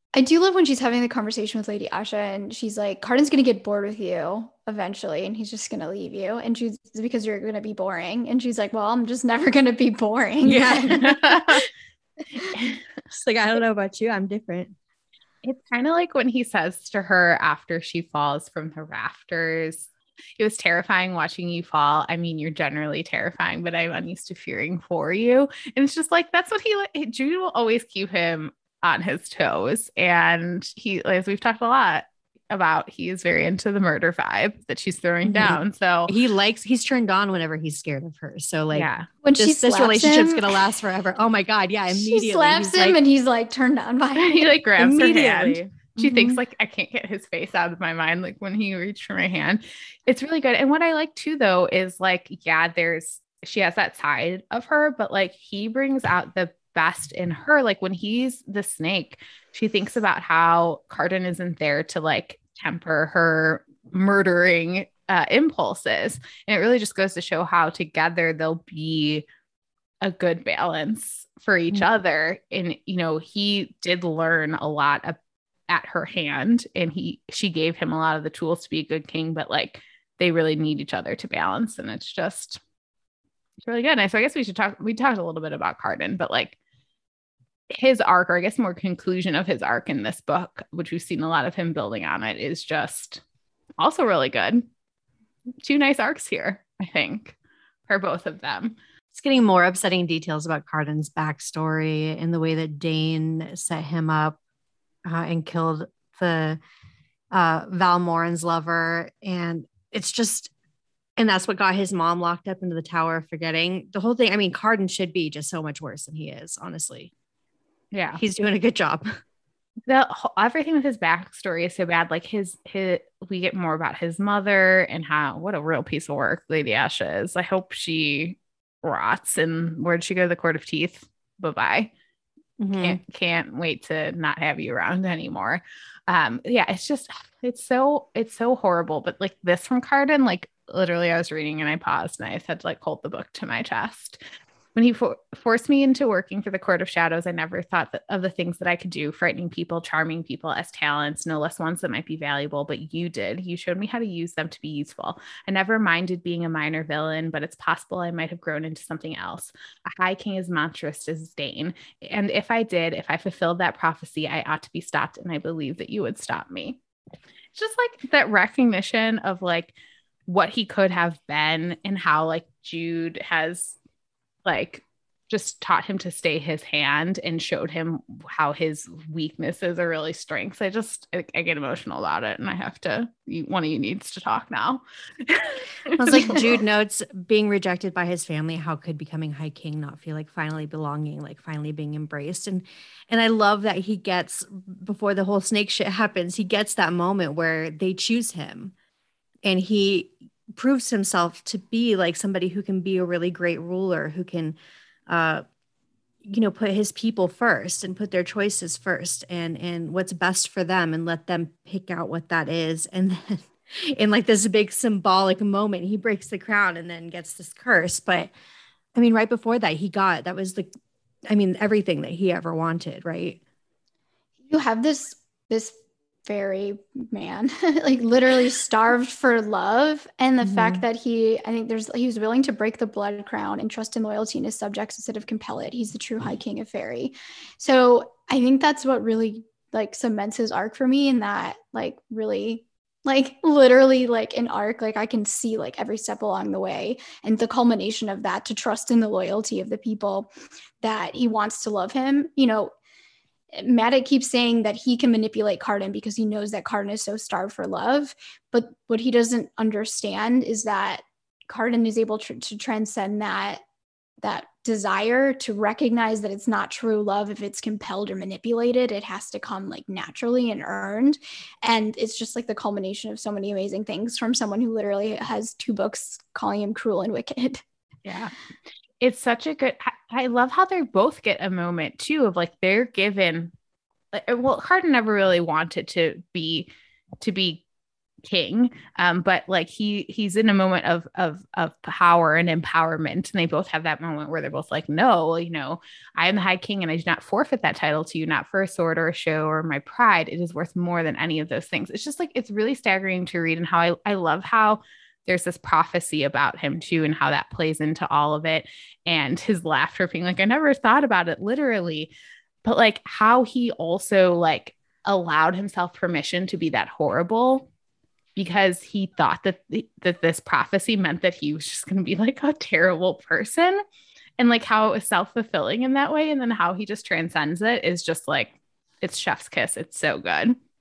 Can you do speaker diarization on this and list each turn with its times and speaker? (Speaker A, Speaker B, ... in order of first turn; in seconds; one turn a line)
Speaker A: 0.1-11.1
Speaker B: 10.4-11.6
Speaker C: 10.9-11.7
Speaker C: 12.5-12.8
Speaker B: 13.1-14.8
Speaker C: 15.4-36.1
Speaker B: 35.2-43.0
Speaker C: 38.7-39.1
Speaker A: 39.2-40.6
Speaker A: 41.9-44.5
Speaker C: 44.1-69.2
Speaker B: 44.8-46.4
Speaker C: 70.0-75.2
Speaker C: 75.7-82.6
Speaker C: 83.6-86.5
Speaker C: 87.7-93.2
Speaker C: 93.8-94.6
Speaker C: 95.6-97.3
Speaker C: 97.9-98.8
Speaker B: 99.1-104.4
Speaker B: 105.0-106.6
Speaker B: 107.3-110.5
Speaker B: 111.2-117.1
Speaker C: 117.9-118.2
Speaker B: 118.1-119.0
Speaker C: 119.9-131.9
Speaker B: 132.6-133.0
Speaker C: 132.8-144.2
Speaker C: 144.7-166.8
Speaker C: 167.5-169.7
Speaker C: 170.3-173.8
Speaker C: 174.4-186.5
Speaker B: 186.0-198.7
Speaker B: 199.4-204.6
Speaker B: 205.1-205.4
Speaker B: 206.2-218.3
Speaker B: 218.9-220.7
Speaker B: 221.3-223.4
Speaker A: 224.5-250.3
Speaker B: 230.4-230.8
Speaker A: 250.8-252.7
Speaker A: 253.5-263.6
Speaker A: 264.2-277.6
Speaker C: 278.0-278.3
Speaker C: 279.0-283.5
Speaker C: 284.1-286.7
Speaker C: 287.2-287.6
Speaker C: 288.2-312.1
Speaker C: 312.6-317.7
Speaker C: 318.4-323.8
Speaker C: 324.4-330.6